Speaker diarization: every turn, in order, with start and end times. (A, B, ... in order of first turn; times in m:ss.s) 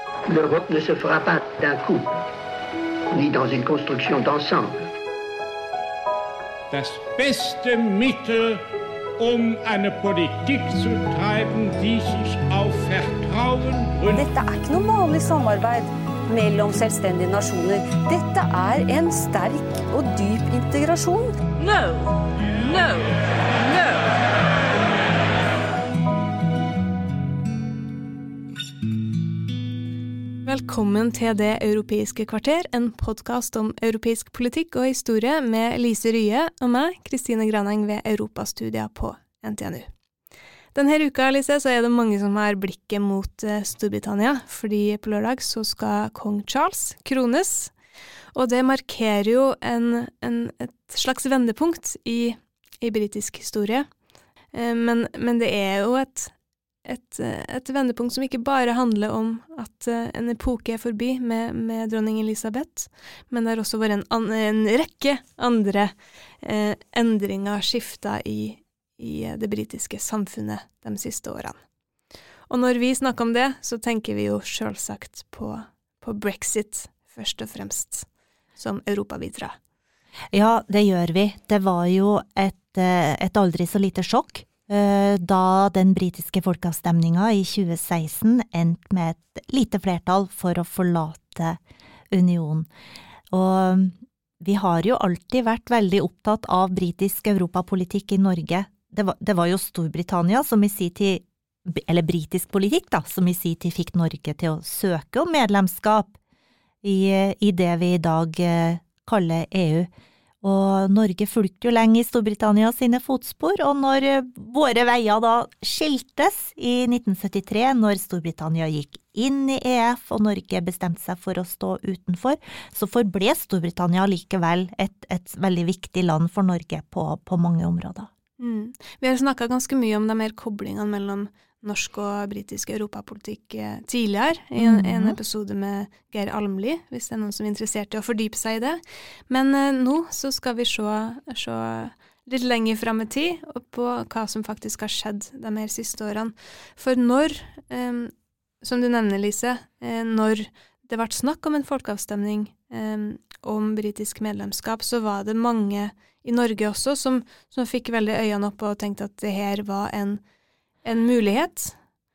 0:00.3-0:02.3 A
0:03.1-0:04.8 A
0:06.7-0:08.6 B
0:09.2-0:14.2 B
0:14.1-0:21.4 C
0:30.4-0:39.9 D
0:40.7-0:47.7 D
0:48.3-0:53.9 D
0:54.5-0:56.3 D
0:56.9-1:11.6 D
1:12.5-1:19.6 D
1:20.3-1:31.6 E
1:32.1-1:32.7 E
1:33.3-1:46.1 E
1:46.8-1:49.9 E
1:50.4-2:08.1 E
2:08.4-2:40.2 D
2:14.6-2:15.2 E
2:40.8-2:41.8 D